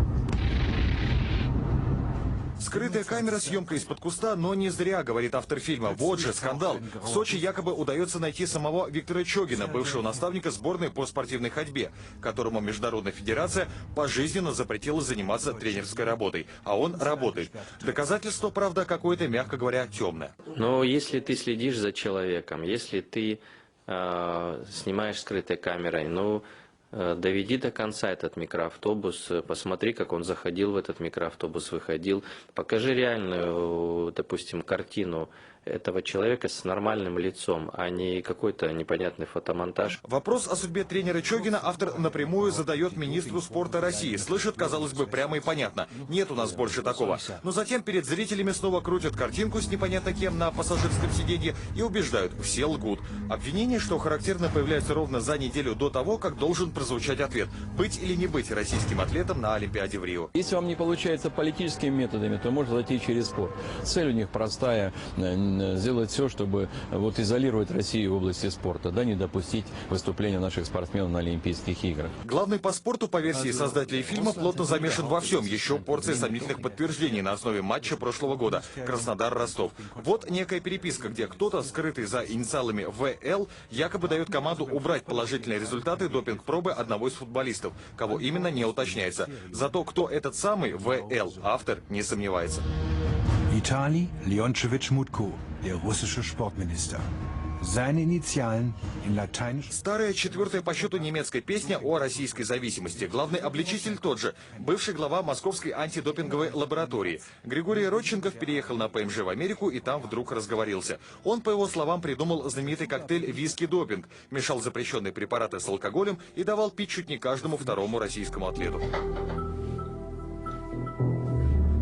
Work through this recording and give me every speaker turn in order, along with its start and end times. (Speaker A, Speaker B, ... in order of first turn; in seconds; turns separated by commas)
Speaker A: 2.6-20.3, Speaker B: 2.6-4.0, Speaker B: 5.8-7.6, Speaker B: 9.5-10.2, Speaker B: 15.1-16.2, Speaker B: 16.8-18.3, Speaker C: 20.4-40.0, Speaker A: 40.0-60.3, Speaker B: 41.1-47.4, Speaker D: 60.3-72.1, Speaker A: 72.2-92.6, Speaker B: 73.3-82.7, Speaker D: 74.4-76.5, Speaker B: 84.0-87.2, Speaker B: 88.0-89.8, Speaker B: 90.7-91.5, Speaker B: 93.5-97.1, Speaker B: 97.6-104.7, Speaker A: 99.7-118.8, Speaker B: 105.9-110.5, Speaker B: 112.4-113.7